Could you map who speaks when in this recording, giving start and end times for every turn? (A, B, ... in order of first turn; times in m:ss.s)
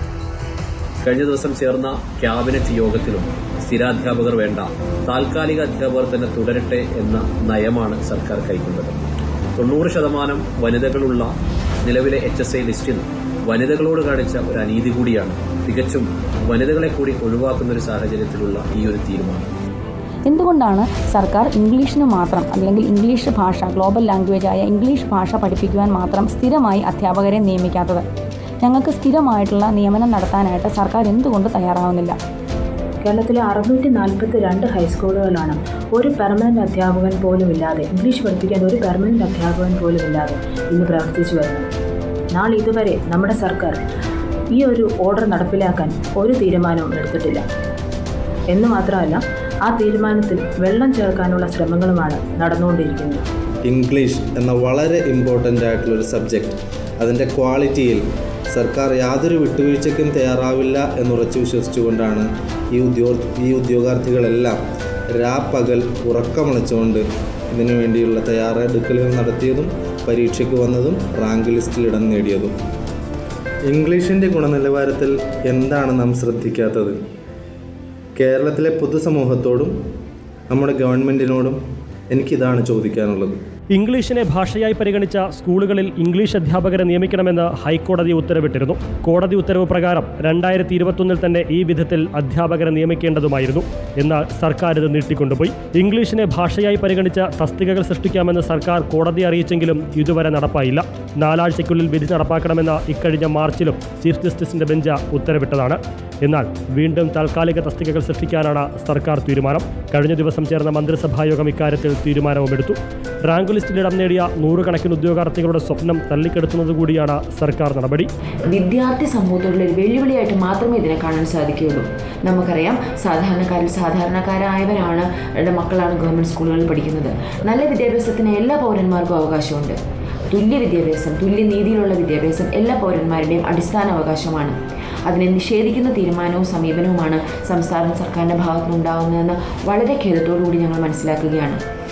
0:01.1-0:09.0 A
0:09.6-0:11.3 A
0:11.8-0:19.5 A
0:20.3-0:28.0 B
0:28.6-0:32.2 B
0:33.0-0:41.7 C
0:42.3-0:43.8 C
0:44.5-0:47.4 C
0:48.5-0:53.2 C
0:53.6-1:04.6 D
1:05.1-1:12.5 D
1:13.7-1:17.0 D
1:18.2-1:19.7 D
1:20.5-1:21.6 D
1:22.1-1:23.4 D
1:23.7-1:58.1 E
1:58.5-2:09.8 F
2:10.3-2:21.6 F